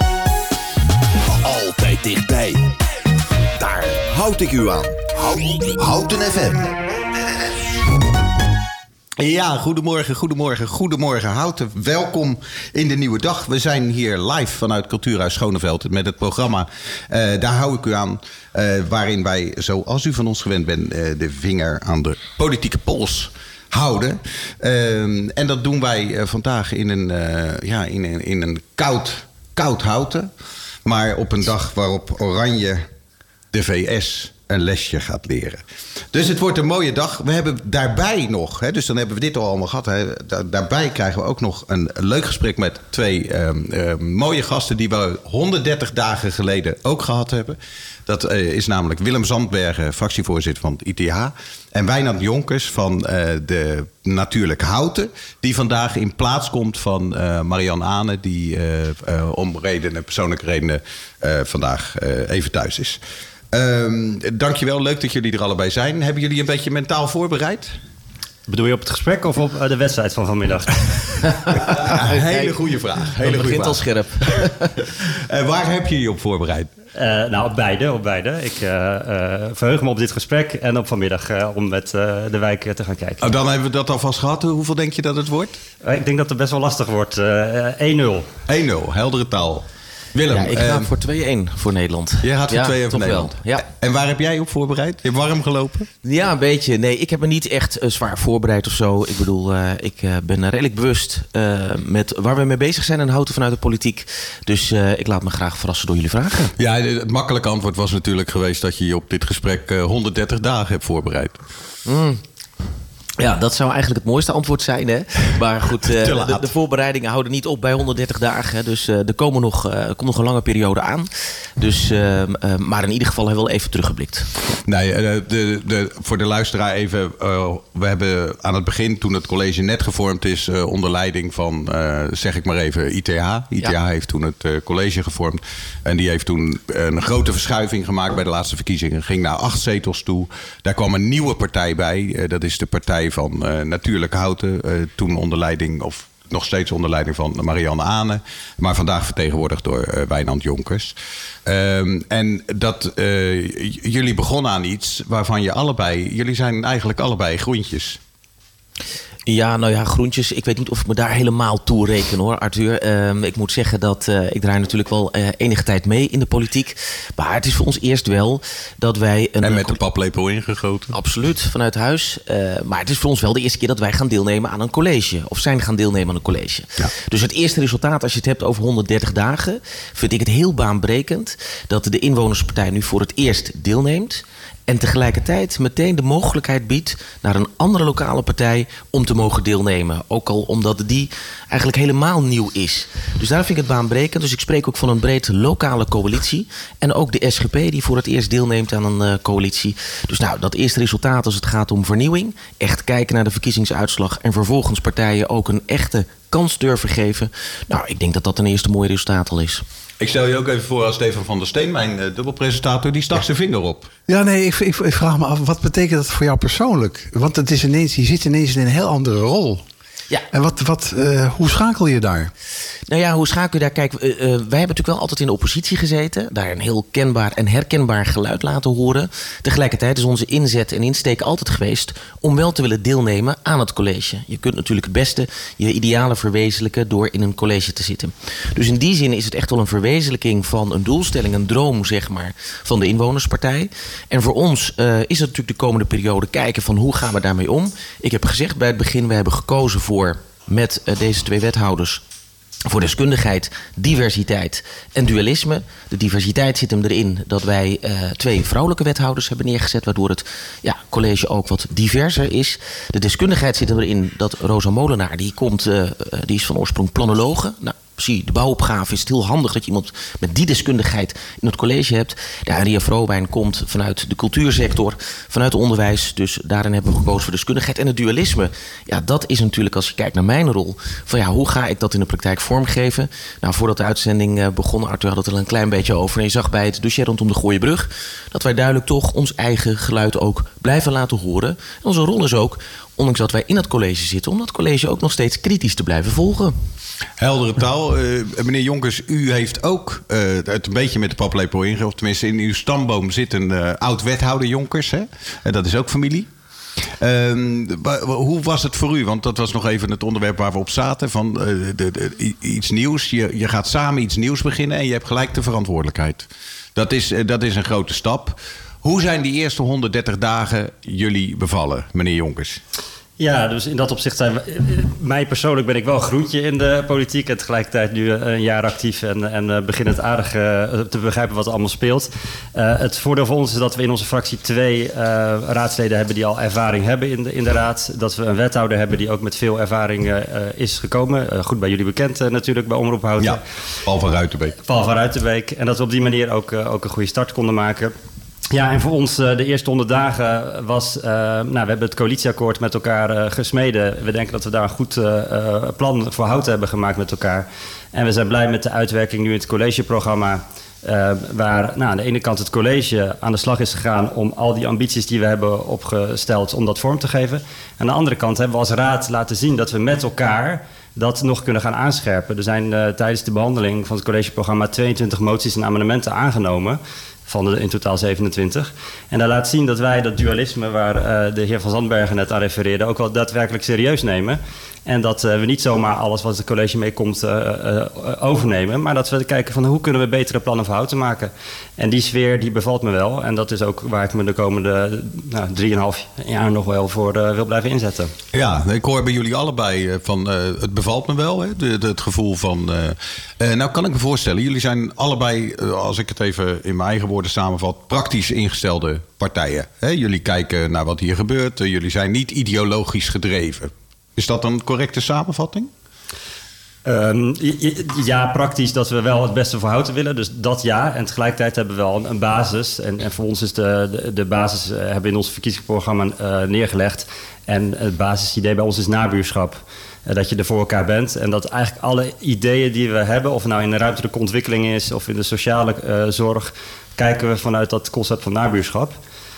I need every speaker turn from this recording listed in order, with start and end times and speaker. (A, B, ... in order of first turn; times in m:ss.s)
0:01.4-0:02.7 A
0:03.6-0:06.7 A
0:09.2-0:30.3 B
0:30.8-0:32.9 B
0:33.5-1:03.0 B
1:03.5-1:07.8 B
1:08.5-1:11.1 C
1:11.7-1:12.5 D
1:11.7-1:14.5 B
1:13.2-1:14.9 D
1:15.0-1:16.7 B
1:17.0-1:23.3 C
1:23.2-1:25.6 B
1:25.8-1:28.3 C
1:28.5-1:30.9 B
1:30.3-1:33.7 D
1:32.2-1:35.9 B
1:36.0-1:46.5 D
1:46.6-1:51.4 B
1:51.9-1:52.2 D
1:53.2-2:04.3 D
1:55.8-1:56.5 B
2:04.7-2:38.0 B
2:39.3-2:49.8 D
2:49.4-2:50.9 B
2:50.9-3:29.6 D
3:30.0-3:33.9 B
3:34.1-3:39.6 E
3:40.3-3:42.3 E
3:42.9-4:12.0 D
4:12.7-4:56.6 D
4:57.2-5:06.3 B
5:07.0-5:22.6 B
5:23.2-5:43.4 C
5:43.2-5:44.6 B
5:44.7-5:47.9 C
5:48.5-6:38.1 C
6:38.3-6:55.7 B
6:56.8-7:19.0 C